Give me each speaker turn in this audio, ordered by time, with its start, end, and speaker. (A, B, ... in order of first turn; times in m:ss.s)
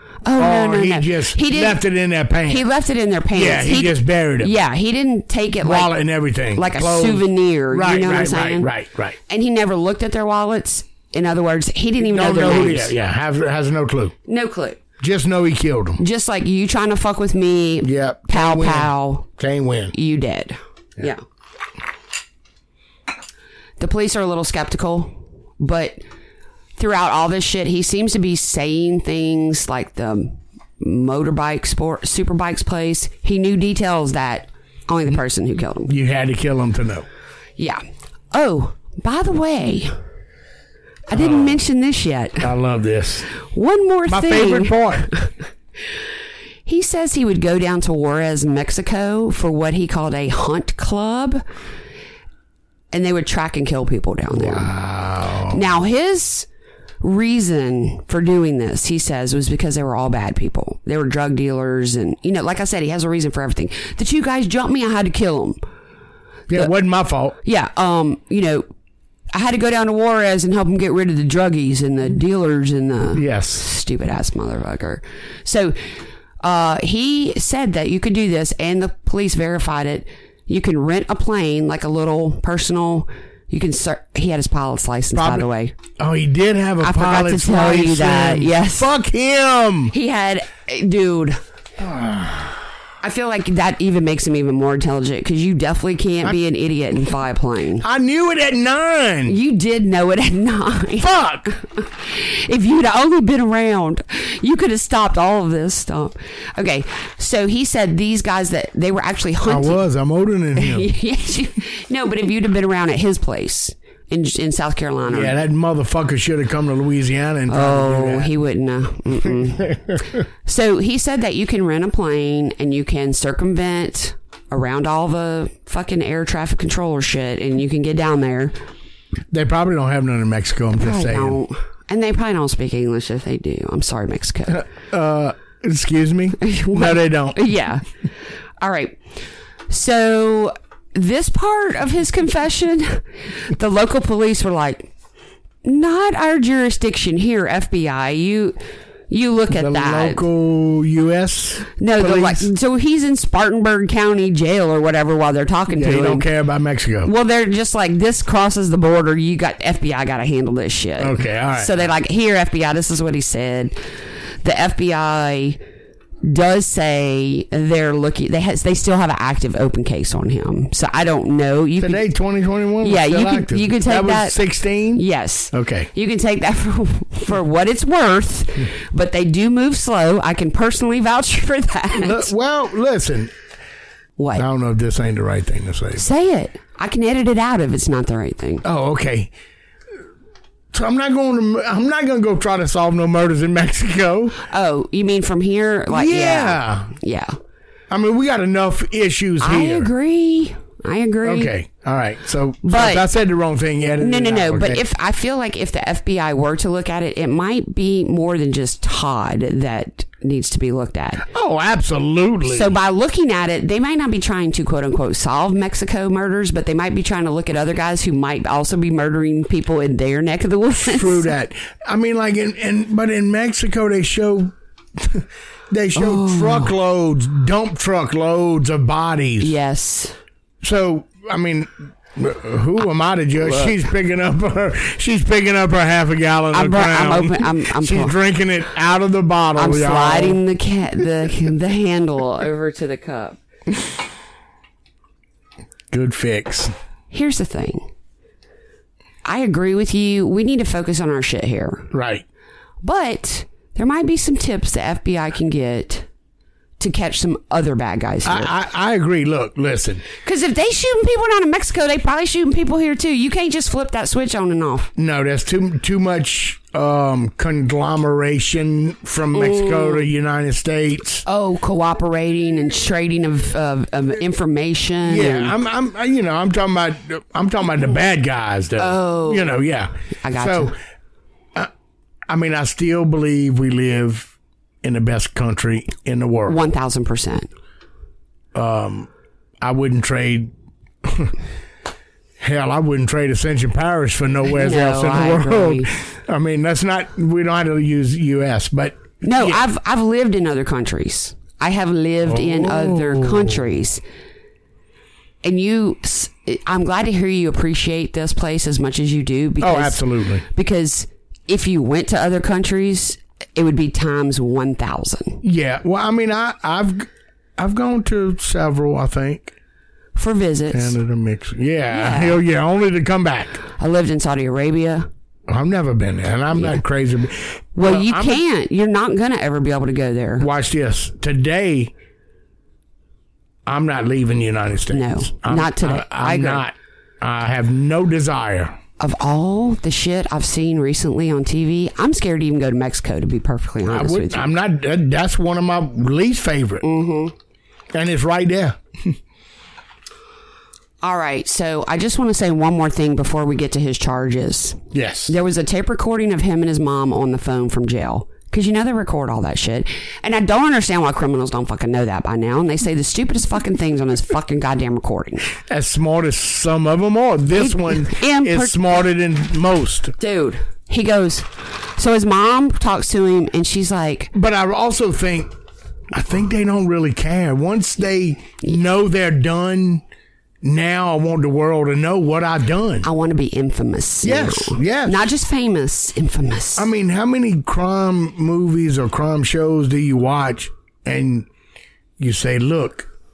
0:00.2-0:01.8 A
0:00.4-0:02.7 B
0:02.5-0:05.9 A
0:03.3-0:04.6 B
0:05.6-0:09.2 B
0:06.5-0:08.7 A
0:09.3-0:13.0 A
0:12.0-0:14.2 B
0:14.3-0:14.8 A
0:15.0-0:16.0 B
0:16.0-0:19.3 A
0:17.8-0:19.9 B
0:19.9-0:21.2 A
0:23.8-0:26.0 A
0:26.8-0:35.9 A
0:35.9-0:37.1 B
0:38.3-0:39.9 A
0:41.1-0:42.5 A
0:41.1-0:41.6 B
0:42.4-0:43.3 B
0:43.5-0:45.3 A
0:44.1-0:45.1 B
0:46.7-0:51.4 A
0:52.9-0:54.7 A
0:54.3-0:55.6 B
0:55.5-0:56.5 A
0:57.0-1:05.6 A
1:06.5-1:07.4 B
1:07.4-1:08.7 A
1:09.3-1:15.8 A
1:13.1-1:13.6 B
1:16.4-1:25.8 A
1:25.1-1:29.9 B
1:26.8-1:28.9 A
1:29.9-1:31.4 A
1:31.8-1:32.6 B
1:33.0-1:37.8 A
1:37.8-1:39.4 B
1:39.3-1:49.8 A
1:41.0-1:41.5 B
1:49.4-1:50.9 B
1:50.6-1:55.4 A
1:55.1-1:58.3 B
1:57.5-1:59.9 A
1:59.6-2:00.0 B
2:00.4-2:08.6 A
2:09.3-2:11.4 B
2:10.8-2:14.7 A
2:14.5-2:17.5 B
2:16.4-2:17.8 A
2:18.6-2:19.0 A
2:19.7-2:24.9 A
2:25.6-2:28.6 A
2:29.1-2:30.2 A
2:29.5-2:32.5 B
2:31.8-2:36.3 A
2:35.8-2:37.1 B
2:37.0-2:43.8 A
2:41.0-2:41.8 B
2:44.4-2:45.6 A
2:46.2-2:52.1 A
2:51.8-2:55.9 B
2:52.8-2:54.4 A
2:54.9-3:02.3 A
3:02.0-3:03.3 B
3:04.2-3:04.4 A
3:04.4-3:06.1 B
3:06.0-3:08.6 A
3:08.6-3:09.3 B
3:10.7-3:14.4 B
3:14.5-3:17.4 A
3:15.9-3:16.9 B
3:17.9-3:19.9 B
3:19.4-3:21.5 A
3:21.2-3:24.8 B
3:22.6-3:23.0 A
3:24.0-3:31.3 A
3:31.2-3:32.7 B
3:32.5-3:41.3 A
3:40.8-3:49.5 B
3:46.0-3:46.7 A
3:49.4-3:50.2 A
3:50.6-4:00.4 B
3:53.4-3:53.7 A
3:56.5-3:58.2 A
3:59.6-4:03.4 A
4:05.9-4:06.7 B
4:07.1-4:07.9 A
4:09.2-4:11.9 A
4:11.9-4:12.2 B
4:12.8-4:16.1 A
4:16.8-4:18.5 A
4:18.2-4:20.0 B
4:20.2-4:24.9 A
4:25.0-4:31.2 B
4:29.3-4:30.1 A
4:31.3-4:35.5 A
4:35.1-4:40.7 B
4:38.8-4:39.6 A
4:40.2-4:40.8 A
4:42.3-4:44.3 B
4:44.8-4:46.6 B
4:46.5-4:47.5 A
4:48.5-4:49.1 B
4:49.6-4:50.5 B
4:51.0-4:51.4 B
4:52.4-4:59.6 B
4:54.5-4:55.9 A
4:59.2-5:04.0 A
5:02.2-5:03.7 B
5:05.4-5:15.4 A
5:09.6-5:10.4 B
5:15.4-5:19.5 B
5:20.2-5:21.0 A
5:20.7-5:23.6 B
5:21.9-5:22.4 A
5:23.8-5:25.1 A
5:25.5-5:28.4 B
5:27.8-5:30.5 A
5:30.4-5:31.9 B
5:33.7-5:38.8 B
5:34.9-5:36.6 A
5:39.0-5:44.5 A
5:43.8-5:46.8 B
5:46.8-5:47.3 A
5:47.9-5:49.2 B
5:51.0-6:05.5 A
5:54.9-5:55.4 B
6:05.6-6:10.2 B
6:07.6-6:08.8 A
6:10.2-6:14.3 A
6:14.3-6:15.5 B
6:16.1-6:20.0 B
6:20.6-6:23.1 B
6:23.0-6:26.9 A
6:24.2-6:25.3 B
6:26.8-6:31.5 B
6:32.2-6:33.1 B